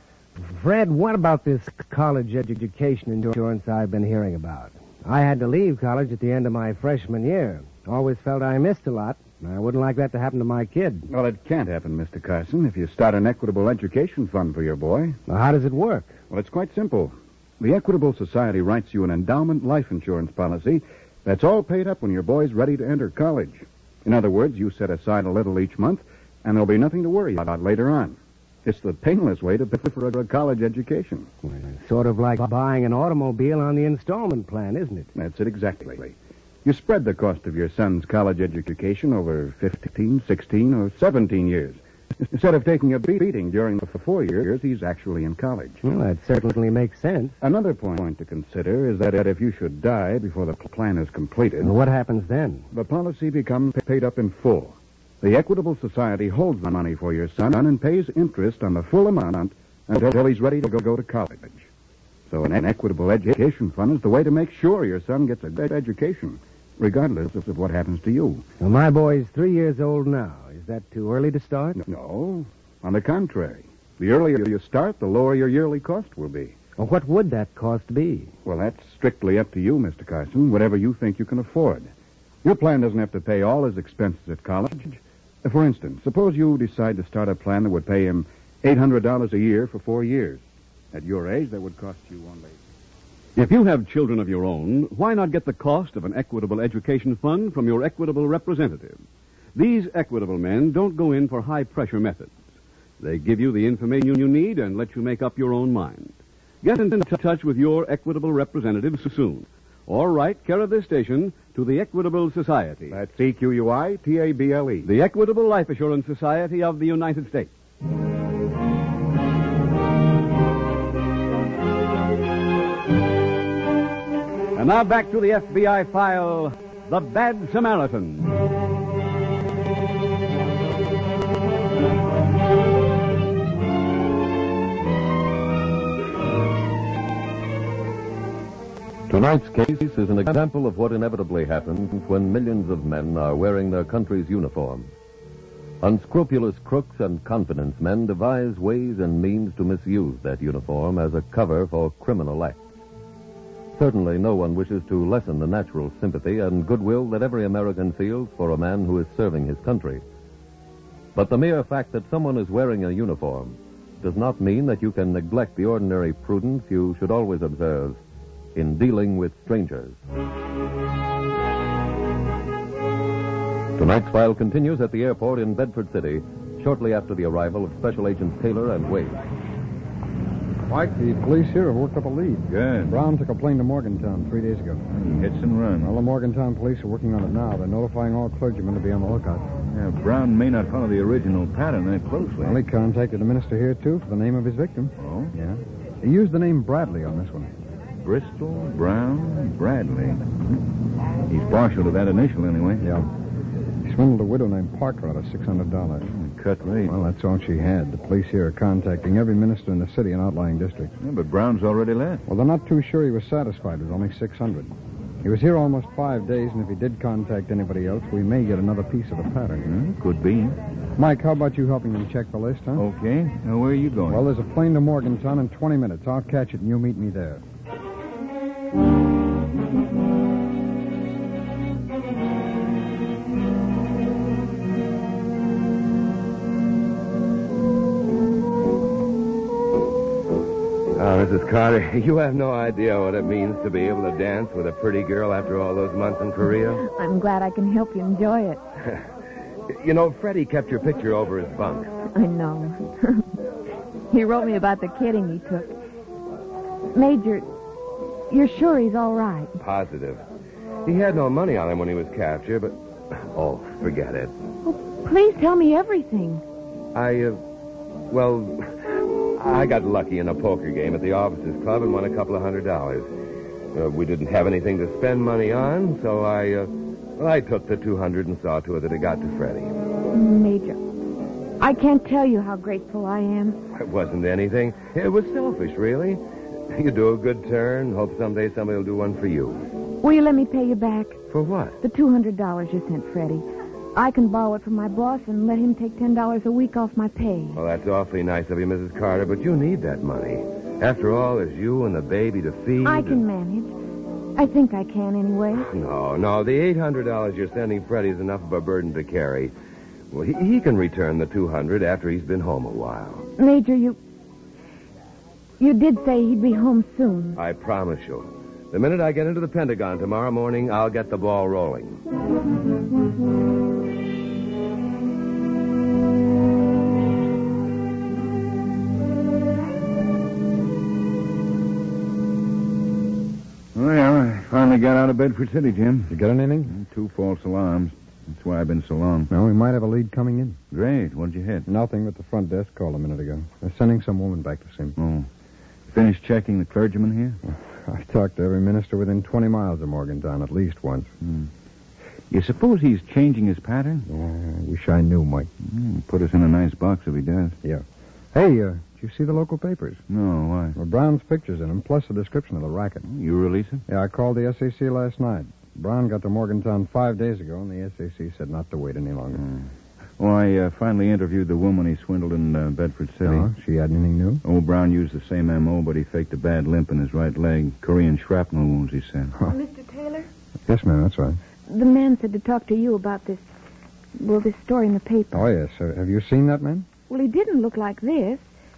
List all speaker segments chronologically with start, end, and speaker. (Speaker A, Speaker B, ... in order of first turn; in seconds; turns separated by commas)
Speaker A: 0.4-11.1, Speaker B: 11.1-15.2, Speaker A: 15.3-16.2, Speaker B: 16.3-31.3, Speaker A: 31.4-35.1, Speaker B: 35.1-36.1, Speaker B: 36.6-45.8, Speaker A: 45.8-47.4, Speaker B: 47.4-51.7, Speaker A: 51.6-52.7, Speaker B: 52.7-61.7, Speaker B: 62.3-68.4, Speaker A: 68.6-71.8, Speaker B: 71.8-76.5, Speaker A: 76.8-78.3, Speaker B: 78.4-81.9, Speaker B: 82.4-92.6, Speaker C: 93.3-99.0, Speaker C: 99.5-102.4, Speaker C: 103.0-112.9, Speaker B: 112.9-114.9, Speaker C: 114.8-117.5, Speaker C: 124.5-128.3, Speaker D: 139.1-144.9, Speaker D: 145.8-152.6, Speaker D: 153.7-160.0, Speaker D: 161.1-168.0, Speaker D: 168.5-170.0, Speaker D: 173.8-179.2, Speaker E: 180.7-184.8, Speaker F: 182.5-183.0, Speaker F: 184.9-185.9, Speaker E: 185.8-189.5, Speaker F: 189.7-192.6, Speaker E: 192.4-197.5, Speaker F: 195.0-195.3, Speaker F: 198.0-200.4, Speaker F: 201.3-202.8, Speaker E: 202.8-203.1, Speaker E: 203.8-206.1, Speaker F: 206.0-206.9, Speaker E: 206.8-210.9, Speaker F: 211.0-212.2, Speaker E: 212.3-219.7, Speaker F: 219.7-220.6, Speaker E: 221.0-222.8, Speaker F: 222.8-224.2, Speaker E: 224.1-227.4, Speaker G: 240.9-246.9, Speaker H: 246.8-248.6, Speaker G: 249.7-251.9, Speaker H: 252.1-253.3, Speaker H: 254.1-255.8, Speaker H: 256.9-257.5, Speaker H: 258.3-259.5, Speaker G: 259.6-260.2, Speaker G: 260.8-264.3, Speaker H: 264.6-266.4, Speaker G: 266.9-267.4, Speaker G: 268.1-273.1, Speaker G: 273.7-279.7, Speaker H: 280.1-280.8, Speaker H: 281.6-283.6, Speaker G: 283.7-289.7, Speaker H: 290.0-291.2, Speaker G: 291.3-291.8, Speaker H: 291.8-293.4, Speaker H: 293.9-297.6, Speaker G: 297.5-303.2, Speaker H: 302.8-303.7, Speaker H: 304.4-305.7, Speaker G: 305.5-309.5, Speaker G: 310.1-313.3, Speaker H: 313.4-314.0, Speaker H: 315.6-317.4, Speaker G: 317.3-322.0, Speaker F: 333.7-336.1, Speaker E: 336.1-336.8, Speaker F: 336.7-339.3, Speaker E: 339.3-340.6, Speaker F: 340.7-341.6, Speaker E: 341.7-344.9, Speaker F: 345.0-345.3, Speaker F: 345.9-347.4, Speaker E: 347.5-351.1, Speaker F: 351.2-351.5, Speaker F: 352.3-354.1, Speaker E: 354.1-355.5, Speaker F: 355.6-357.6, Speaker E: 357.6-360.0, Speaker F: 360.1-360.8, Speaker E: 360.8-363.1, Speaker F: 363.1-363.8, Speaker E: 363.9-369.4, Speaker F: 369.4-373.5, Speaker E: 373.2-374.4, Speaker F: 374.4-379.3, Speaker H: 379.6-380.2, Speaker E: 380.7-381.4, Speaker H: 381.7-383.4, Speaker H: 384.2-385.4, Speaker E: 385.3-386.9, Speaker H: 387.1-388.4